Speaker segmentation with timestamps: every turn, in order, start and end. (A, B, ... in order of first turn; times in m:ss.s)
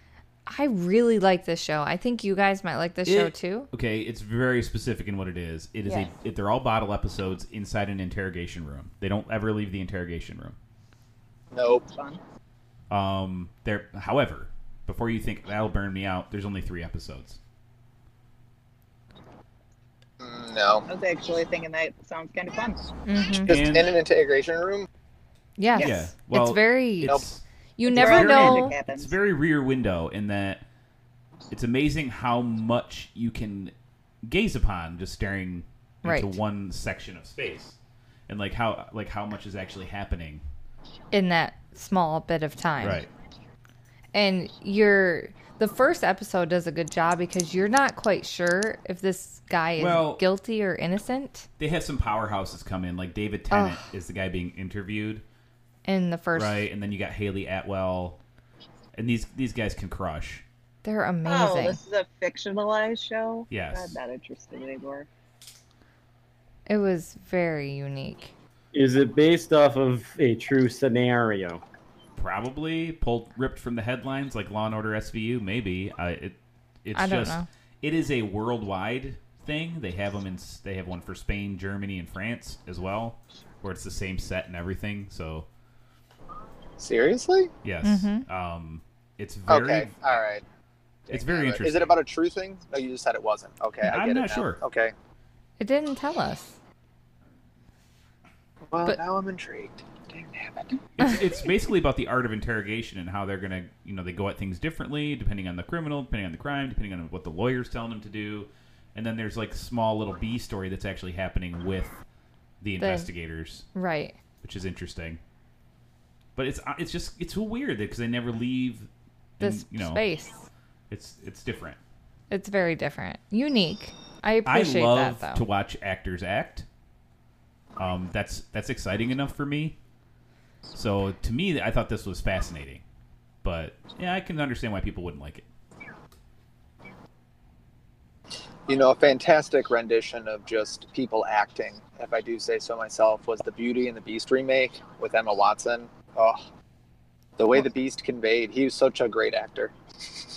0:00.4-0:03.7 A
0:03.0-0:10.6 B
0:11.5-0:11.8 C
0:11.8-0:12.2 D
0:12.9-0:17.4 B
0:20.2-0:20.8 C
0:20.9-0:22.8 D
0:23.0-0:23.5 A
0:23.4-0:24.9 C
0:23.5-0:23.9 B
0:25.6-0:27.2 A
0:25.8-0:27.4 B
0:27.8-0:28.8 A
0:27.9-0:29.1 D
0:28.0-0:30.6 B
0:31.5-0:33.7 B
0:34.2-0:37.8 B
0:36.0-0:36.4 A
0:38.3-0:40.4 B
0:41.1-0:43.0 A
0:42.8-0:43.1 B
0:44.1-0:51.5 A
0:49.8-0:50.2 B
0:51.6-0:55.2 B
0:53.5-0:53.8 A
0:55.8-0:56.7 A
0:56.4-0:58.2 B
0:58.9-1:00.4 B
1:00.8-1:01.8 A
1:01.2-1:05.1 D
1:03.5-1:04.0 B
1:06.7-1:08.3 A
1:08.7-1:11.6 E
1:12.2-1:25.5 B
1:16.9-1:17.5 A
1:26.8-1:27.5 C
1:27.6-1:30.2 B
1:27.8-1:28.2 A
1:29.5-1:30.4 C
1:31.1-1:34.9 C
1:31.1-1:32.0 B
1:33.8-1:34.6 B
1:35.6-1:36.6 A
1:38.7-1:40.8 C
1:41.0-1:52.0 B
1:52.6-1:53.6 B
1:52.8-1:53.1 A
1:53.7-1:54.2 A
1:54.4-1:55.2 B
1:56.4-2:00.0 B
1:59.4-2:00.4 A
2:00.9-2:01.8 B
2:02.3-2:05.4 A
2:04.4-2:06.6 B
2:07.8-2:09.8 B
2:10.7-2:12.8 B
2:13.4-2:15.4 B
2:18.7-2:26.4 C
2:27.4-2:29.7 C